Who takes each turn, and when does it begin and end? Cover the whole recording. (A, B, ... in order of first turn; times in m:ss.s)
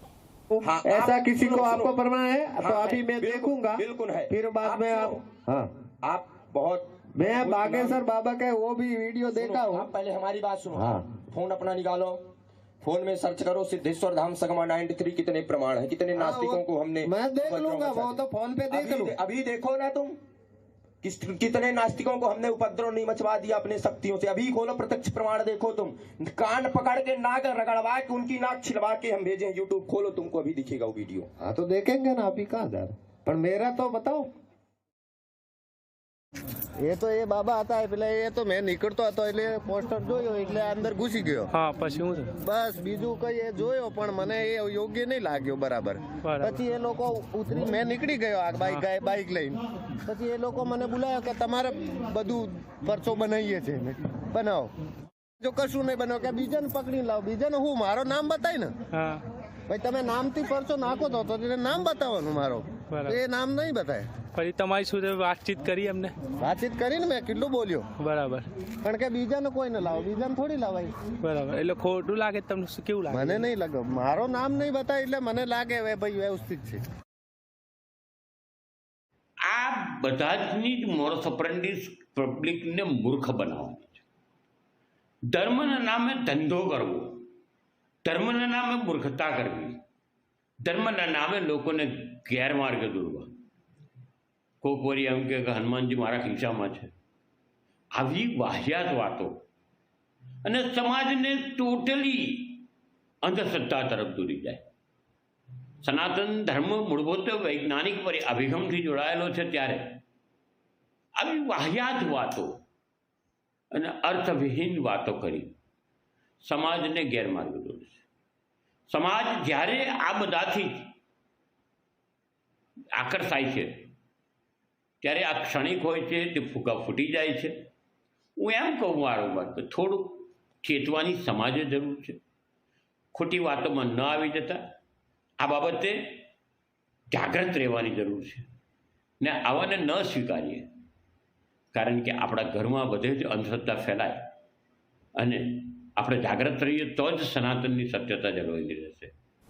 0:00.5-0:05.7 A
0:00.6-0:02.0 B
0:02.6-0:05.2 B
0:06.0-0:08.0 B
0:07.2-0:09.9 A
0:09.3-0:12.2 B
0:10.8-0:11.1 A
0:12.8-0:18.2 B
0:16.2-0:19.2 A
0:18.7-0:20.2 B
0:21.0-0:31.3 B
0:31.4-0:34.3 A
0:36.8-0:41.5 A
0:41.5-0:42.3 C
0:42.4-0:54.7 A
0:46.2-0:46.6 C
0:55.4-0:58.7 A
0:58.9-0:59.2 C
0:59.7-1:04.1 A
1:02.9-1:03.2 C
1:04.4-1:06.1 C
1:06.4-1:07.8 A
1:08.0-1:08.5 C
1:08.8-1:10.9 A
1:11.2-1:13.4 C
1:13.1-1:16.8 A
1:19.5-1:24.0 D
1:25.3-1:27.3 D
1:28.0-1:29.8 D
1:30.6-1:33.3 D
1:34.6-1:36.9 D
1:38.0-1:39.4 D
1:40.4-1:42.7 D
1:43.2-1:44.7 D
1:45.8-1:50.0 D
1:51.2-1:52.6 D
1:53.7-1:55.5 D
1:56.4-1:58.0 D
1:58.9-2:00.9 D
2:03.0-2:03.9 D
2:05.0-2:07.7 D
2:08.4-2:12.2 D
2:13.1-2:14.6 D
2:15.4-2:16.2 D
2:17.1-2:18.5 D
2:19.2-2:20.7 D
2:21.7-2:24.3 D
2:25.2-2:29.1 D